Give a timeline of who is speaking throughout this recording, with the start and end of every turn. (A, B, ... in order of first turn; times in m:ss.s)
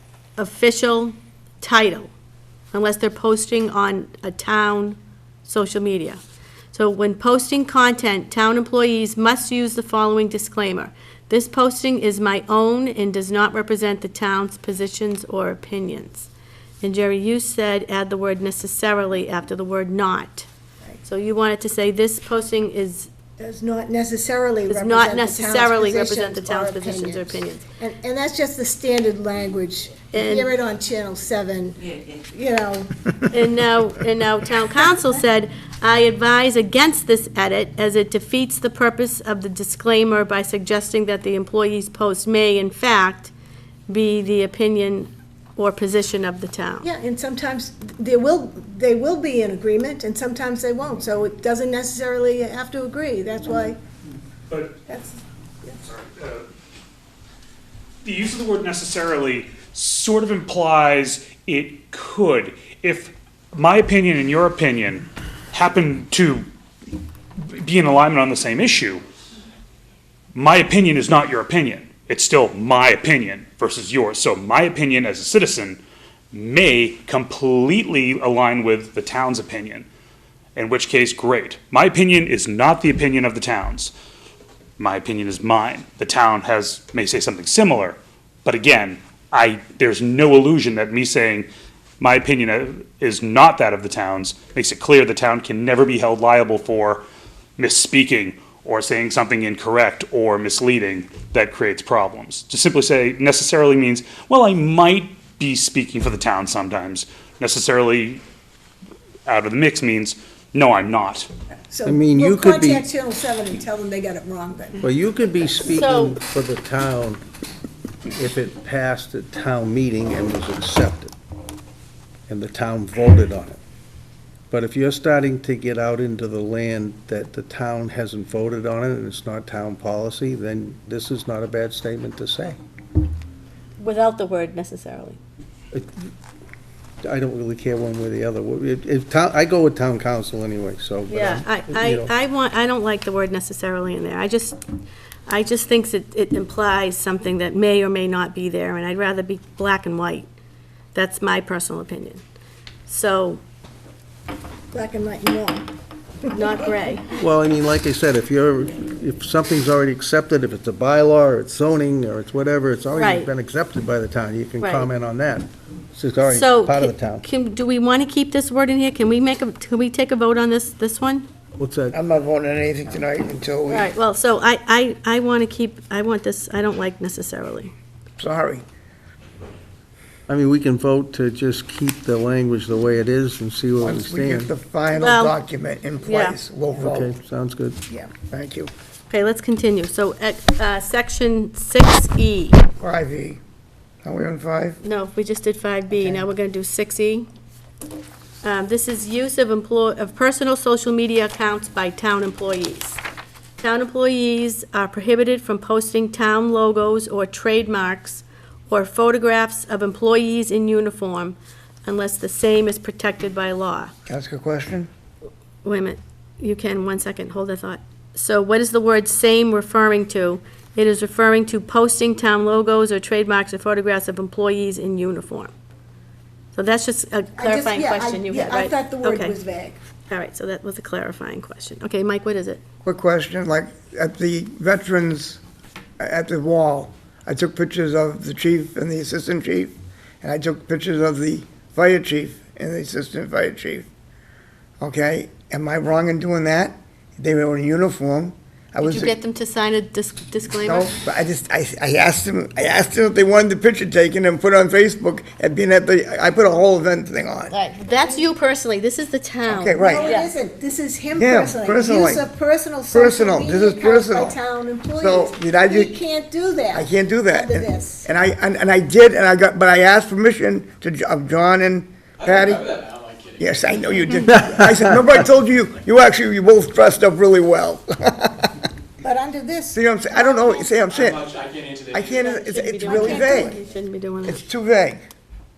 0:00.4-0:02.1 A
0:02.7-0:06.2 A
0:06.7-0:16.3 A
0:16.8-0:20.5 A
0:21.0-0:23.1 A
0:23.4-0:33.2 B
0:24.7-0:27.7 A
0:30.1-0:30.5 A
0:33.3-0:43.3 A
0:43.9-0:46.9 A
0:46.8-0:53.8 B
0:54.9-0:55.8 B
0:55.8-0:56.5 C
0:58.0-1:06.5 C
1:07.4-1:09.0 C
1:10.3-1:19.9 C
1:20.6-1:23.9 C
1:24.8-1:31.5 C
1:32.0-1:37.0 C
1:37.6-1:48.2 C
1:49.3-1:51.3 C
1:51.7-1:54.9 B
1:51.8-1:52.9 D
1:54.8-1:57.2 D
1:55.7-1:56.2 A
1:58.1-2:01.1 D
2:02.3-2:03.6 D
2:04.5-2:12.6 D
2:13.8-2:15.2 A
2:15.7-2:16.1 D
2:17.0-2:22.1 D
2:21.1-2:24.6 A
2:25.3-2:30.3 A
2:30.9-2:32.2 A
2:32.9-2:33.4 A
2:34.7-2:35.7 B
2:36.3-2:36.7 B
2:36.3-2:37.1 A
2:37.2-2:47.2 D
2:42.9-2:43.3 A
2:44.6-2:44.9 A
2:46.3-2:51.3 A
2:51.6-2:52.0 D
2:51.9-2:53.9 E
2:53.7-2:57.7 A
2:58.2-2:58.6 E
3:00.3-3:04.5 D
3:03.8-3:07.1 E
3:05.0-3:05.4 A
3:06.0-3:06.4 A
3:06.8-3:07.8 D
3:07.9-3:08.7 E
3:09.1-3:12.6 A
3:12.8-3:13.4 E
3:14.0-3:14.8 E
3:14.8-3:17.3 A
3:18.4-3:23.0 A
3:23.6-3:33.9 A
3:34.1-3:34.9 E
3:35.6-3:45.5 A
3:46.5-3:49.4 A
3:47.4-3:49.8 B
3:50.1-3:52.6 A
3:52.8-3:55.4 E
3:56.0-4:03.9 E
4:04.8-4:09.1 E
4:08.8-4:10.9 A
4:10.6-4:17.6 E
4:17.5-4:20.3 A
4:19.5-4:20.1 E
4:19.8-4:28.1 B
4:21.2-4:22.2 E
4:22.9-4:24.4 E
4:25.0-4:26.0 E
4:26.7-4:32.8 E
4:32.2-4:33.5 F
4:33.4-4:38.6 E
4:39.0-4:40.8 B
4:39.7-4:41.3 E
4:40.9-4:42.2 F
4:41.9-4:43.6 E
4:42.2-4:44.4 A
4:42.9-4:43.6 B
4:44.2-4:45.0 E